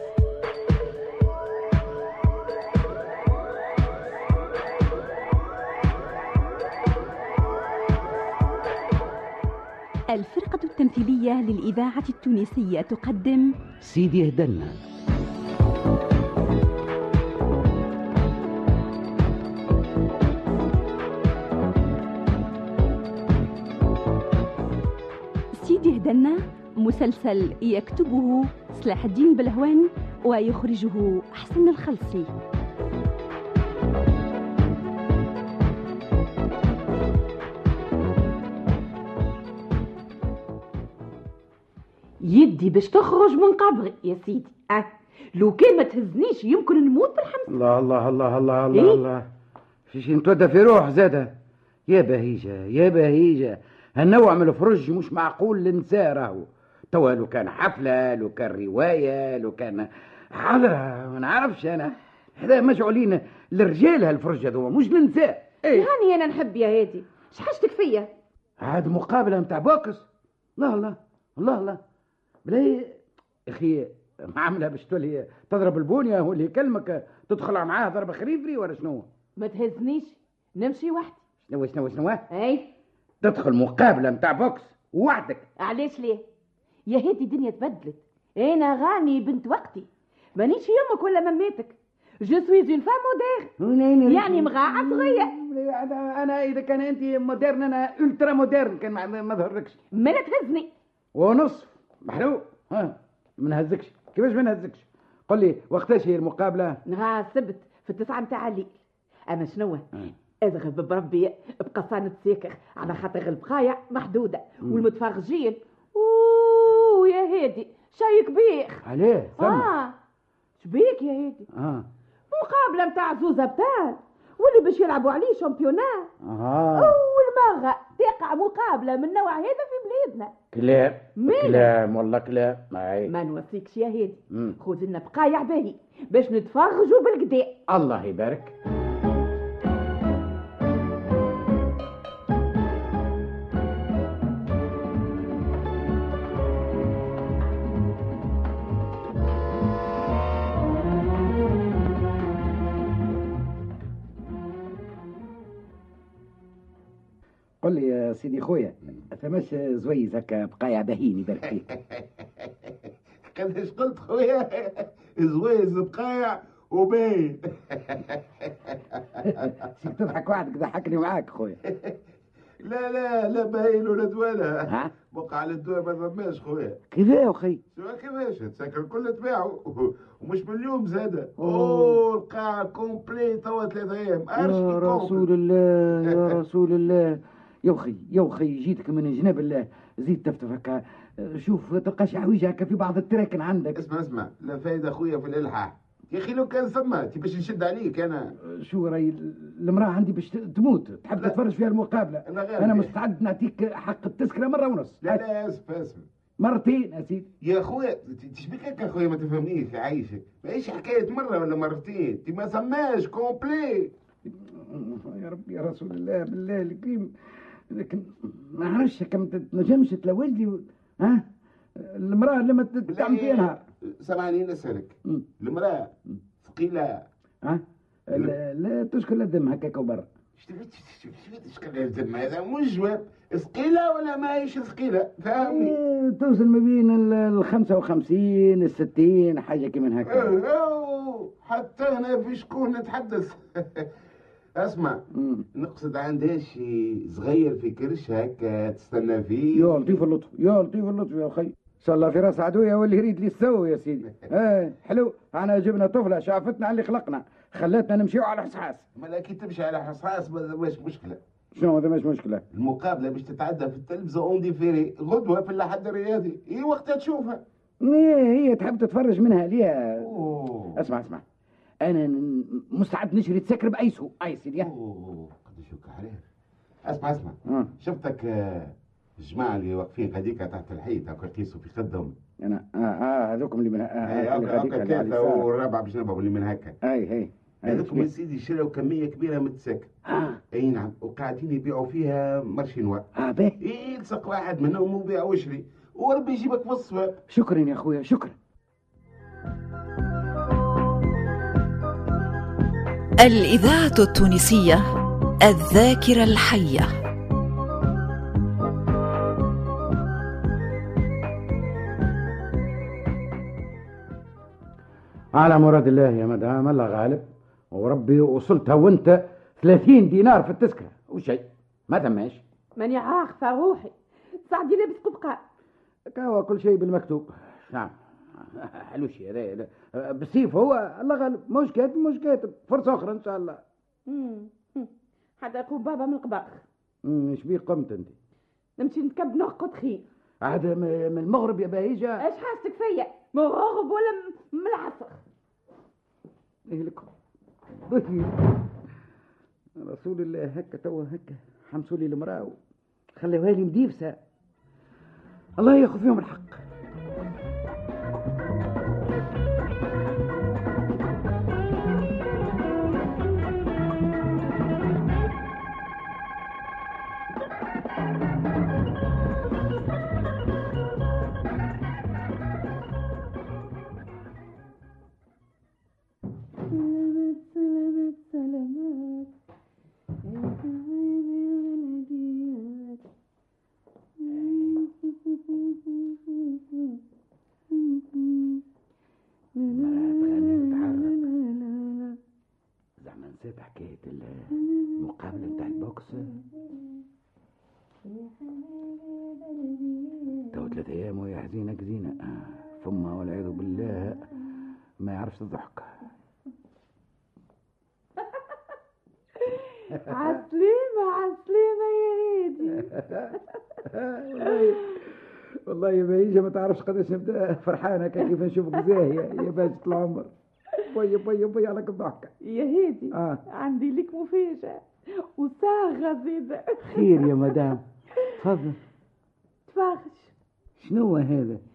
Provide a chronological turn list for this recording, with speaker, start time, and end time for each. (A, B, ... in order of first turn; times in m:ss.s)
0:10.1-0:13.5 A
0:13.8-0:14.8 B
0:25.6-0:32.3 A
0:42.2-0:47.5 C
0:47.5-0:49.3 B
0:48.7-0:49.0 C
0:49.9-1:05.9 B
1:05.7-1:08.1 C
1:08.6-1:11.8 B
1:12.4-1:19.1 B
1:19.4-1:21.2 C
1:21.5-1:22.2 B
1:22.3-1:22.7 C
1:23.2-1:25.4 B
1:25.6-1:26.2 C
1:26.8-1:33.5 C
1:33.6-1:39.8 B
1:34.0-1:35.3 C
1:39.9-1:40.7 C
1:41.1-1:46.8 B
1:46.8-1:49.9 C
1:50.4-1:58.8 C
1:58.8-1:59.7 B
1:59.4-1:59.9 C
2:00.6-2:01.5 C
2:01.5-2:01.8 B
2:02.3-2:06.1 C
2:06.2-2:07.0 B
2:06.7-2:10.3 C
2:10.5-2:13.1 B
2:11.2-2:11.7 C
2:13.0-2:17.6 C
2:14.3-2:14.6 B
2:17.7-2:18.5 B
2:37.6-2:41.7 B
2:41.9-2:42.7 D
2:43.3-2:48.8 D
2:49.2-2:51.6 B
2:51.7-2:52.0 D
2:52.6-2:56.8 D
2:56.9-2:57.6 B
2:57.7-3:05.2 D
3:01.4-3:02.0 B
3:04.4-3:13.8 B
3:13.7-3:18.3 D
3:18.4-3:25.2 B
3:22.2-3:22.9 D
3:25.0-3:26.0 D
3:26.4-3:27.3 B
3:27.4-3:33.9 D
3:34.2-3:37.1 B
3:37.7-3:41.2 B
3:41.7-3:43.6 B
3:42.9-3:47.0 D
3:47.4-3:50.1 B
3:50.4-3:55.8 D
3:55.4-4:00.3 B
4:00.0-4:03.9 D
4:04.5-4:05.0 D
4:05.1-4:05.4 B
4:05.5-4:10.0 D
4:09.5-4:18.9 B
4:18.9-4:21.2 D
4:21.5-4:22.4 B
4:22.5-4:27.4 D
4:27.8-4:30.1 B
4:30.0-4:30.8 D
4:30.8-4:31.2 B
4:31.8-4:34.7 B
4:34.6-4:36.2 D
4:36.8-4:42.1 D
4:37.5-4:37.7 B
4:42.4-4:45.4 B
4:44.0-4:46.8 D
4:46.8-4:48.1 B
4:47.6-4:49.9 D
4:50.1-4:50.4 B
4:50.5-4:53.0 D
4:53.1-4:53.6 B
4:53.6-4:57.2 D
4:57.3-4:58.4 B
5:03.2-5:04.8 E
5:05.4-5:06.9 E
5:15.3-5:22.4 B
5:22.7-5:25.4 C
5:26.1-5:33.6 B
5:34.0-5:36.6 C
5:37.0-5:38.1 B
5:38.8-5:40.1 C
5:40.4-5:42.2 B
5:42.2-5:45.2 C
5:46.7-5:47.1 B
5:47.9-5:48.4 B
5:49.8-5:52.6 B
5:53.2-5:54.2 B
5:55.6-5:56.6 B
6:16.7-6:19.3 C
6:20.2-6:23.0 C
6:24.2-6:26.8 C
6:24.3-6:24.8 B
6:27.7-6:28.6 C
6:29.6-6:32.2 C
6:29.7-6:31.2 B
6:33.0-6:36.4 B
6:38.0-6:40.5 C
6:40.5-6:44.3 B
6:45.0-6:46.0 B
6:49.4-6:52.9 C
6:52.7-6:55.0 B
6:55.6-7:02.3 B
7:02.4-7:07.4 C
7:03.1-7:03.4 B
7:06.8-7:07.8 B
7:08.4-7:08.8 B
7:09.6-7:10.3 C
7:10.8-7:11.6 B